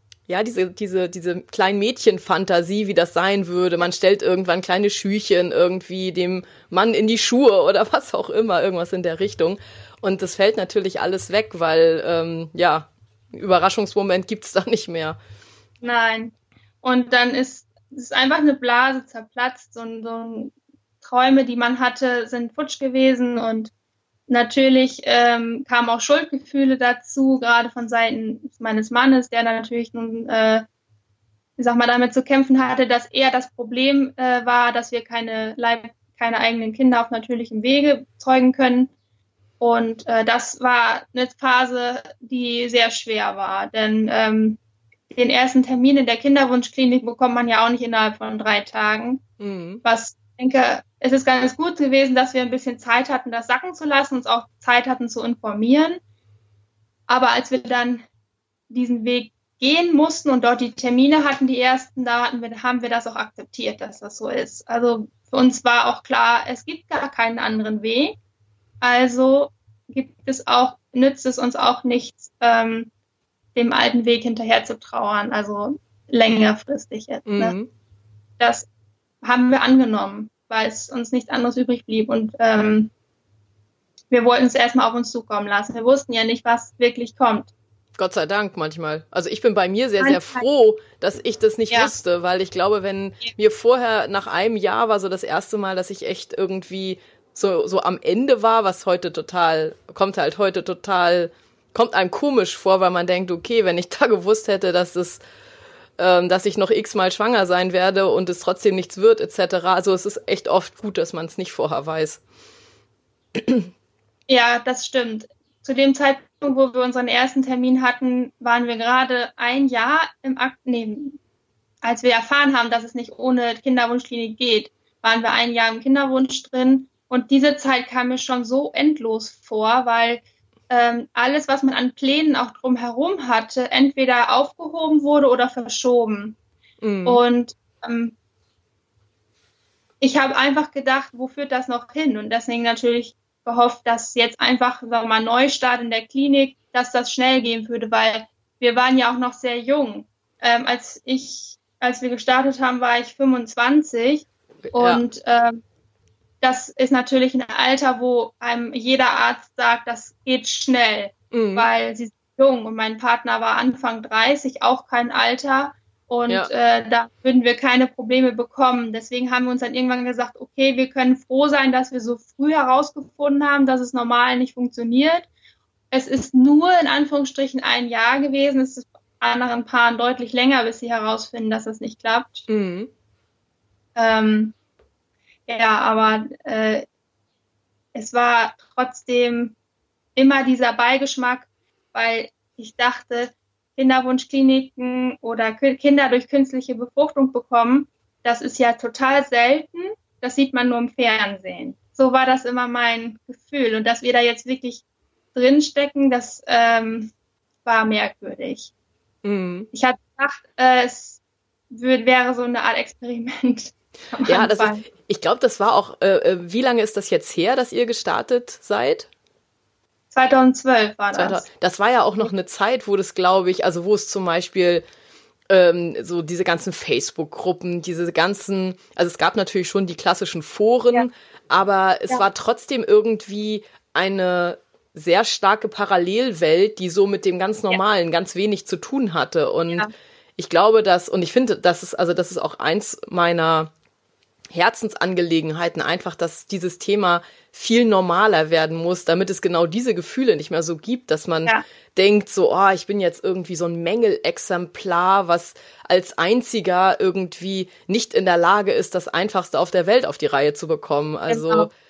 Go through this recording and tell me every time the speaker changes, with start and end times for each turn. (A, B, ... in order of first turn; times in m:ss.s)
0:00.3-0:15.2 A
0:15.8-0:23.7 B
0:24.3-0:30.6 B
0:31.6-0:38.9 B
0:39.6-0:44.6 B
0:45.1-0:49.2 B
0:49.4-0:49.8 A
0:49.8-0:56.0 B
0:57.1-0:58.0 B
0:58.7-1:08.2 B
1:08.8-1:12.9 B
1:13.5-1:17.6 B
1:17.2-1:17.7 A
1:18.4-1:18.7 B
1:19.2-1:22.9 B
1:24.1-1:27.5 B
1:28.0-1:45.2 A
1:30.0-1:30.5 B
1:46.0-1:52.2 A
1:53.4-1:53.7 A
1:54.3-2:01.2 B
2:01.8-2:16.4 B
2:16.8-2:17.2 A
2:17.0-2:18.1 B
2:20.0-2:35.6 B
2:34.7-2:35.0 A
2:36.4-2:55.3 B
2:41.3-2:41.7 A
2:55.9-3:02.4 B
3:02.5-3:02.9 A
3:04.0-3:04.5 B
3:05.5-3:06.8 B
3:07.9-3:09.6 B
3:10.2-3:24.8 B
3:25.3-3:27.1 B
3:27.6-3:28.7 B
3:29.2-3:29.7 A
3:29.7-3:34.8 B
3:34.3-3:39.1 A
3:40.1-3:41.4 B
3:41.1-3:44.8 A
3:45.5-4:03.7 A
4:04.5-4:21.7 A
4:21.3-4:21.7 B